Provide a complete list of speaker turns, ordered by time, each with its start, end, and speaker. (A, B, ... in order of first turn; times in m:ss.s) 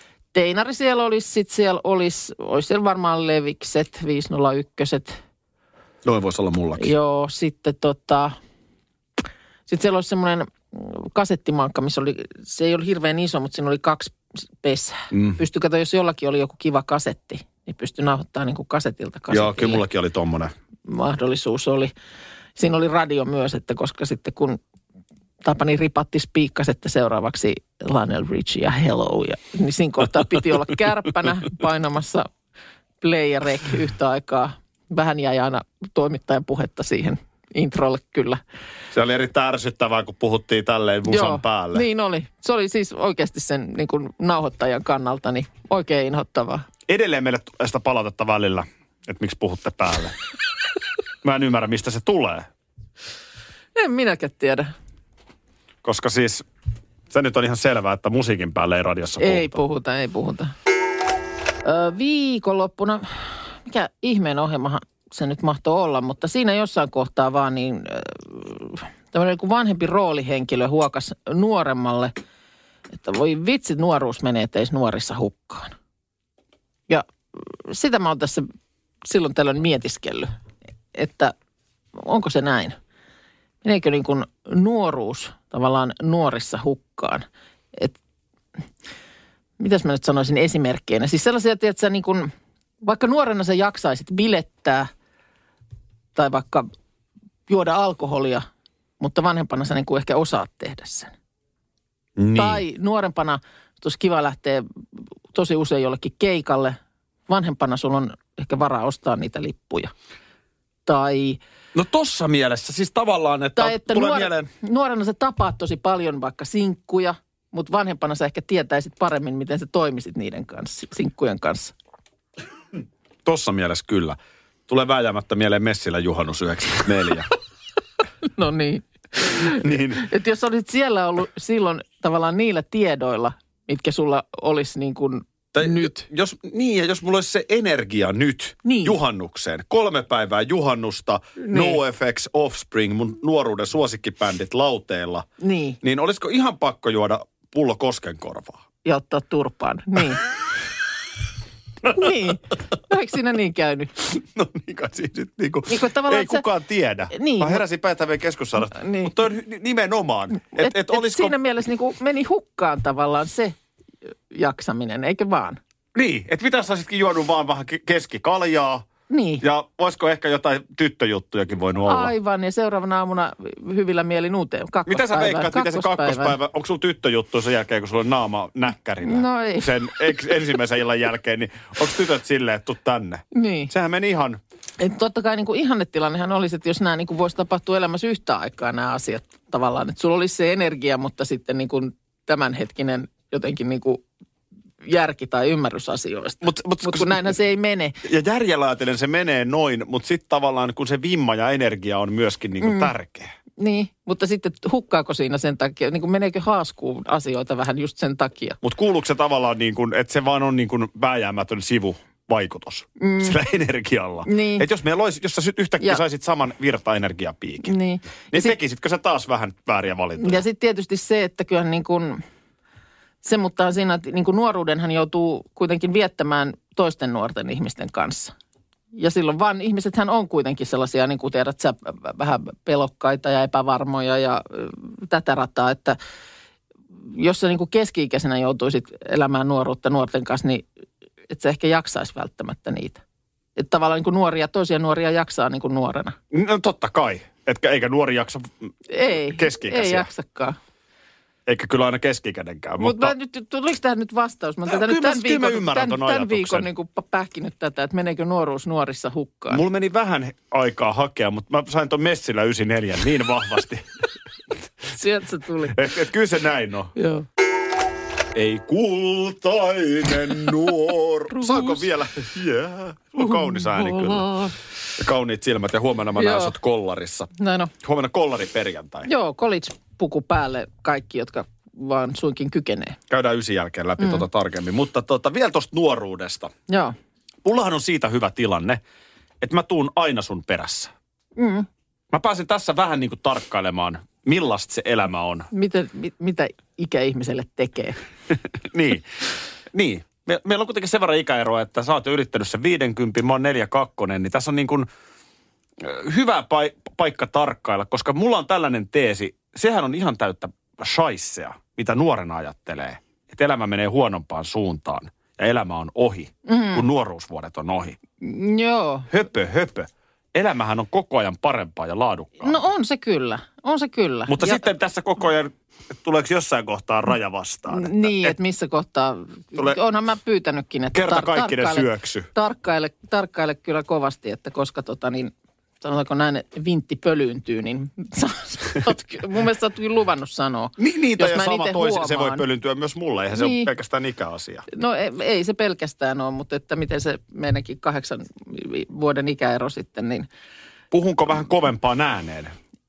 0:00.3-0:05.2 A
0:06.0-0:06.9 B
0:06.8-0:08.4 A
0:09.7-0:19.8 A
0:15.1-0:15.4 B
0:19.3-0:20.5 B
0:20.9-0:21.9 A
0:22.6-0:24.6 A
0:25.4-0:32.3 A
0:33.0-0:38.4 A
0:38.9-0:41.8 B
0:41.1-0:46.6 A
0:46.9-0:50.2 B
0:51.2-0:52.5 B
0:53.8-0:54.7 A
0:55.8-0:56.4 B
0:57.1-0:59.6 B
0:59.2-1:00.5 A
1:01.6-1:12.1 A
1:13.0-1:15.7 A
1:16.9-1:18.5 A
1:19.0-1:20.3 A
1:20.9-1:21.3 A
1:22.0-1:22.8 A
1:23.6-1:27.9 A
1:29.6-1:32.3 A
1:32.8-1:34.9 A
1:36.1-1:36.7 A
1:37.5-1:38.5 A
1:39.0-1:41.1 A
1:42.2-1:42.6 B
1:42.3-1:44.6 A
1:45.3-1:49.9 A
1:50.8-1:51.4 A
1:51.7-1:54.5 B
1:53.6-2:01.7 A
2:03.2-2:07.3 B
2:08.4-2:16.0 A
2:09.4-2:10.1 B
2:15.5-2:25.2 B
2:18.6-2:19.0 A
2:21.5-2:21.8 A
2:25.4-2:25.8 A
2:25.8-2:28.6 B
2:28.8-2:30.2 A
2:31.8-2:33.9 A
2:34.1-2:41.4 B
2:35.7-2:36.4 A
2:37.1-2:37.6 A
2:38.7-2:39.2 A
2:40.6-2:43.5 A
2:44.3-2:45.6 A
2:45.9-2:48.9 B
2:49.1-2:49.4 A
2:49.4-2:52.1 B
2:51.8-2:56.4 A
2:54.9-3:04.4 B
2:59.0-2:59.9 A
3:03.3-3:03.7 A
3:04.8-3:14.0 A
3:14.8-3:18.0 A
3:16.4-3:17.3 B
3:18.0-3:23.3 B
3:22.6-3:22.9 A
3:23.6-3:28.6 A
3:28.6-3:37.8 B
3:33.0-3:33.4 A
3:34.2-3:34.7 A
3:37.6-3:38.6 A
3:38.3-3:40.4 B
3:40.2-3:42.2 A
3:43.2-3:48.3 A
3:48.9-3:56.0 A
3:57.1-4:00.6 A
4:01.3-4:03.0 A
4:03.6-4:06.2 A
4:06.3-4:10.1 B
4:08.9-4:10.6 A
4:11.4-4:13.1 B
4:12.8-4:19.6 A
4:14.7-4:16.7 B
4:19.5-4:23.8 B
4:24.9-4:25.8 A
4:25.7-4:26.9 B
4:27.0-4:27.2 A
4:28.3-4:34.4 B
4:31.3-4:31.8 A
4:33.2-4:34.5 A
4:35.0-4:37.3 B
4:36.2-4:36.5 A
4:37.4-4:37.7 A
4:37.8-4:39.1 B
4:39.1-4:43.0 A
4:43.1-4:46.5 B
4:44.0-4:44.2 A
4:46.7-4:46.9 A
4:47.4-4:48.8 B
4:49.4-4:50.9 B
4:51.4-4:51.7 A
4:52.1-4:55.5 B
4:55.5-4:58.0 A
4:58.7-4:59.2 B
4:59.7-5:04.9 B
5:05.8-5:18.0 B
5:16.4-5:16.8 A
5:18.2-5:19.1 A
5:19.1-5:22.6 B
5:22.4-5:24.6 A
5:24.3-5:28.3 B
5:27.7-5:42.4 A
5:30.9-5:32.3 B
5:40.8-5:44.6 B
5:43.3-5:43.7 A
5:44.7-5:50.3 A
5:50.9-5:52.5 B